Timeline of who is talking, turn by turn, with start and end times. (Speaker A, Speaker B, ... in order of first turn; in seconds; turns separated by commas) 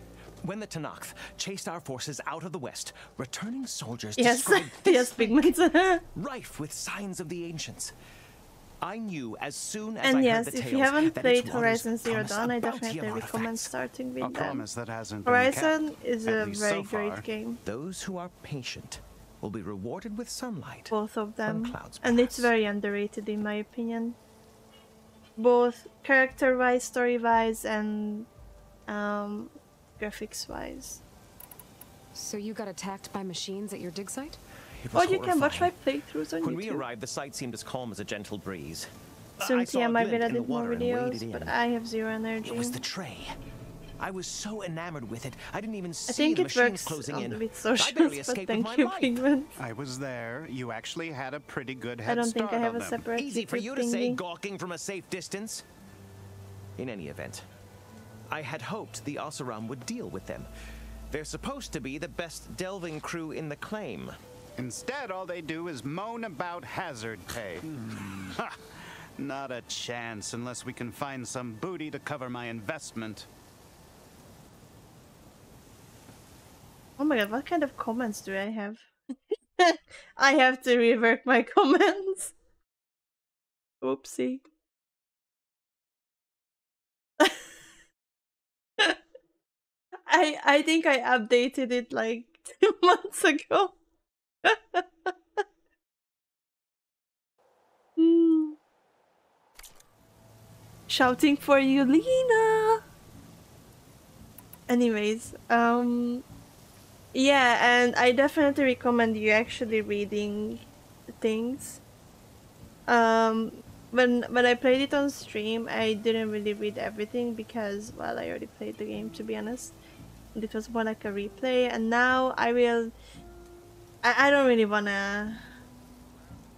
Speaker A: 0.4-5.2, Speaker B: 4.2-6.0, Speaker A: 6.1-7.9, Speaker A: 8.8-13.7, Speaker B: 10.0-14.6, Speaker C: 14.2-17.2, Speaker B: 15.2-17.6, Speaker A: 17.6-20.9, Speaker B: 20.9-24.1, Speaker A: 21.4-22.5, Speaker B: 25.4-28.3, Speaker B: 28.9-31.0, Speaker D: 32.1-34.4, Speaker A: 34.8-35.7, Speaker B: 34.9-36.8, Speaker A: 36.4-38.9, Speaker A: 39.4-41.5, Speaker B: 39.4-42.8, Speaker A: 42.4-43.3, Speaker A: 44.0-49.2, Speaker B: 46.1-49.5, Speaker C: 49.6-53.0, Speaker B: 52.0-54.2, Speaker A: 53.1-55.6, Speaker A: 56.8-57.4, Speaker A: 58.3-60.5, Speaker A: 61.1-64.1, Speaker C: 64.6-68.6, Speaker C: 69.2-73.3, Speaker B: 77.0-82.3, Speaker B: 83.8-84.4, Speaker B: 90.1-93.7, Speaker B: 94.4-95.4, Speaker B: 98.0-98.5, Speaker B: 100.9-102.8, Speaker B: 104.7-106.2, Speaker B: 107.1-111.8, Speaker B: 112.9-119.8, Speaker B: 120.3-122.9, Speaker B: 124.0-125.4